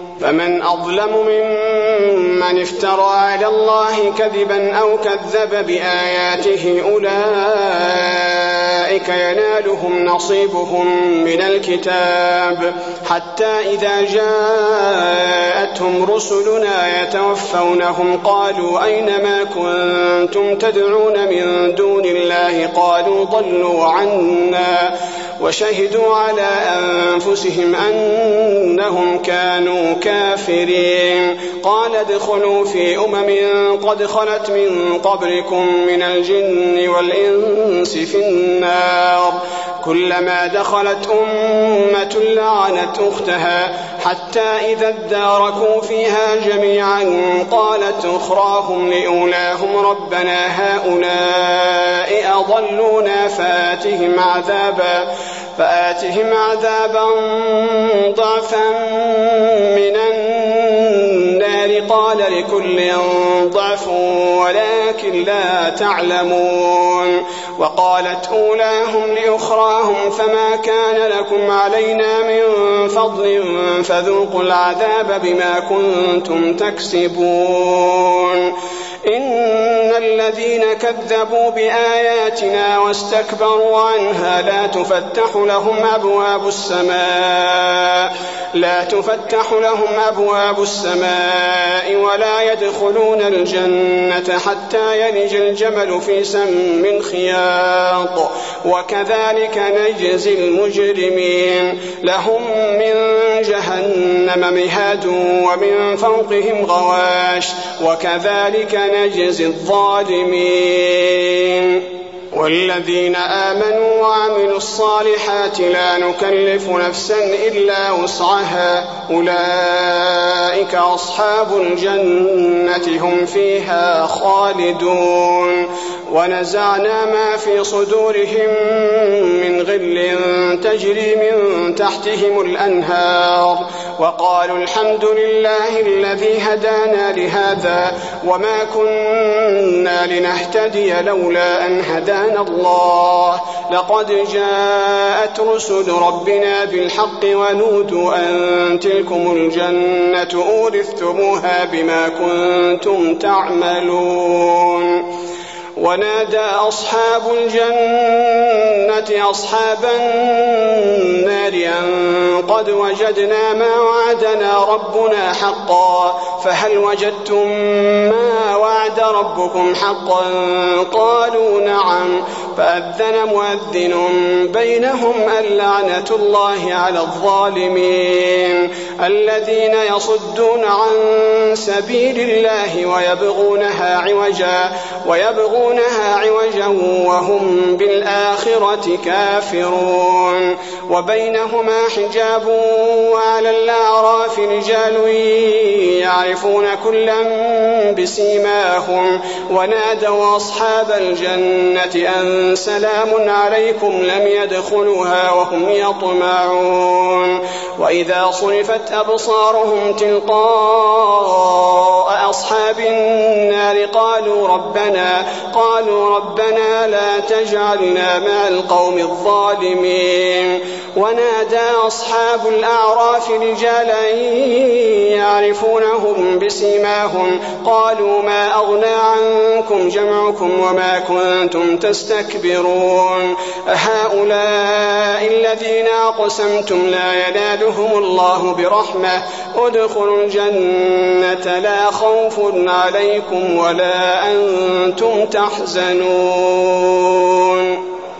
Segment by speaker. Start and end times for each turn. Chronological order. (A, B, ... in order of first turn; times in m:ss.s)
0:00.2-1:18.5 A
1:19.1-2:35.0 A
2:35.8-4:07.8 A